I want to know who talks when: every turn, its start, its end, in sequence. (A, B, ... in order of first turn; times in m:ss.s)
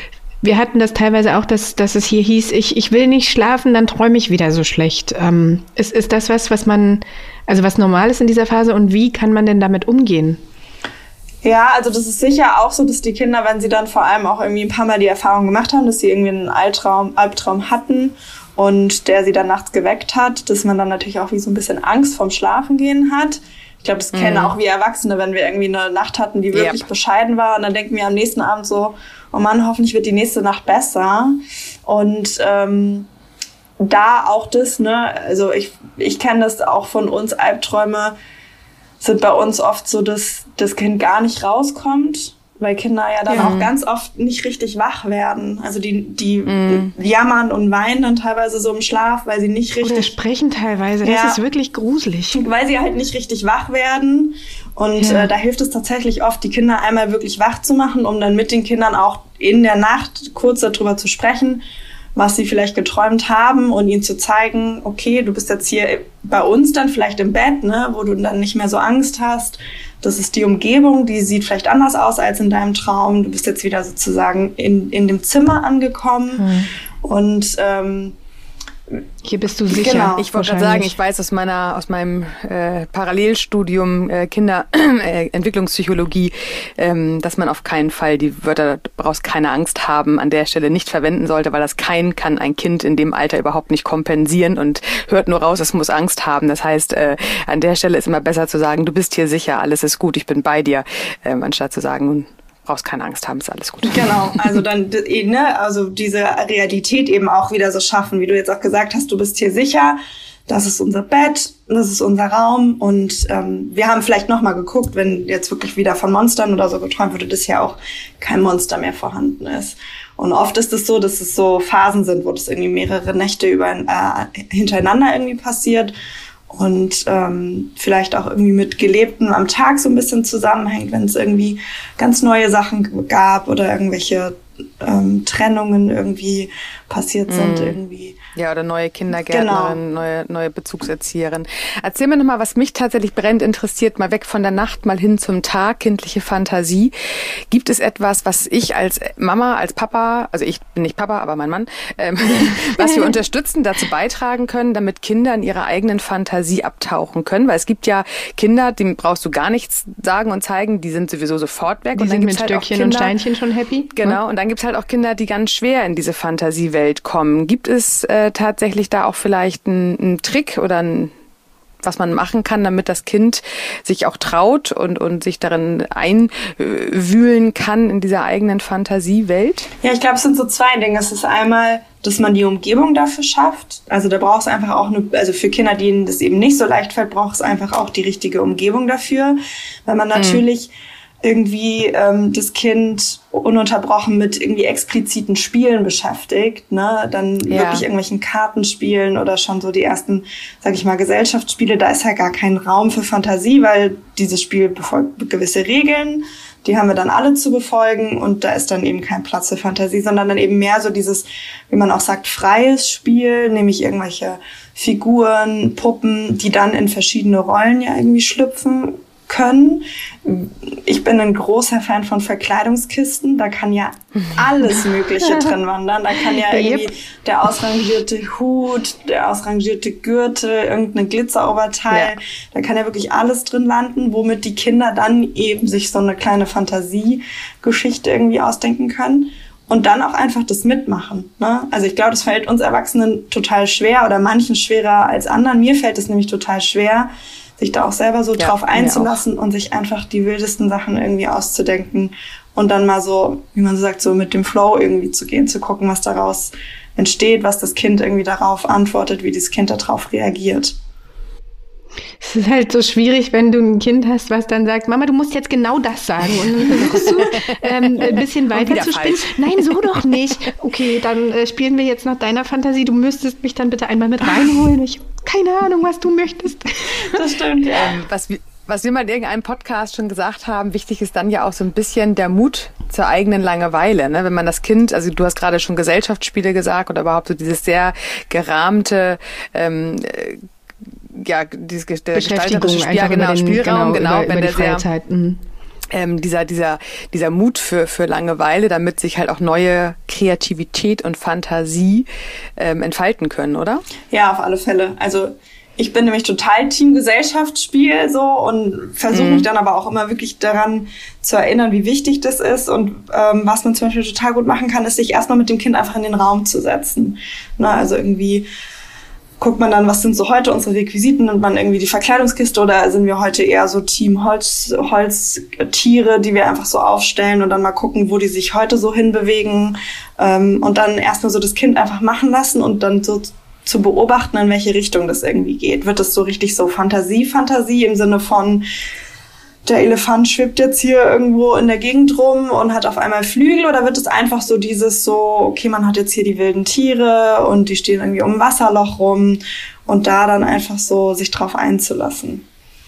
0:00.4-0:10.4 A
0:11.4-0:33.1 B
0:24.1-0:24.5 C
0:26.5-0:26.9 C
0:33.8-0:38.1 B
0:39.0-0:50.1 B
0:43.3-0:43.6 A
0:43.3-0:43.7 C
0:46.4-0:46.9 C
0:49.8-0:52.4 A
0:51.0-0:51.4 B
0:52.3-1:01.6 B
0:55.0-0:55.3 A
1:02.2-1:16.5 B
1:16.4-1:16.7 A
1:17.0-1:18.2 B
1:19.2-1:20.9 A
1:19.7-1:20.3 B
1:20.2-1:44.6 C
1:43.9-2:05.9 B
2:06.5-2:18.2 B
2:17.3-2:17.8 C
2:18.3-2:26.9 C
2:19.2-2:19.8 B
2:27.5-2:43.1 C
2:41.9-2:44.2 A
2:43.9-2:51.1 C
2:51.8-2:59.7 C
2:59.8-4:20.7 B
3:10.1-3:10.4 C
3:17.5-3:17.8 C
3:46.3-3:46.9 A
4:08.4-4:09.2 C
4:22.2-4:37.2 A
4:26.8-4:27.3 C
4:28.0-4:30.2 C
4:37.1-4:38.0 B
4:37.7-4:50.4 C
4:51.1-4:54.9 C
4:52.1-4:55.4 A
4:55.9-5:02.0 C
5:02.6-5:03.8 C
5:04.1-5:18.4 B
5:09.1-5:09.5 C
5:19.4-5:38.6 B
5:39.6-5:52.4 B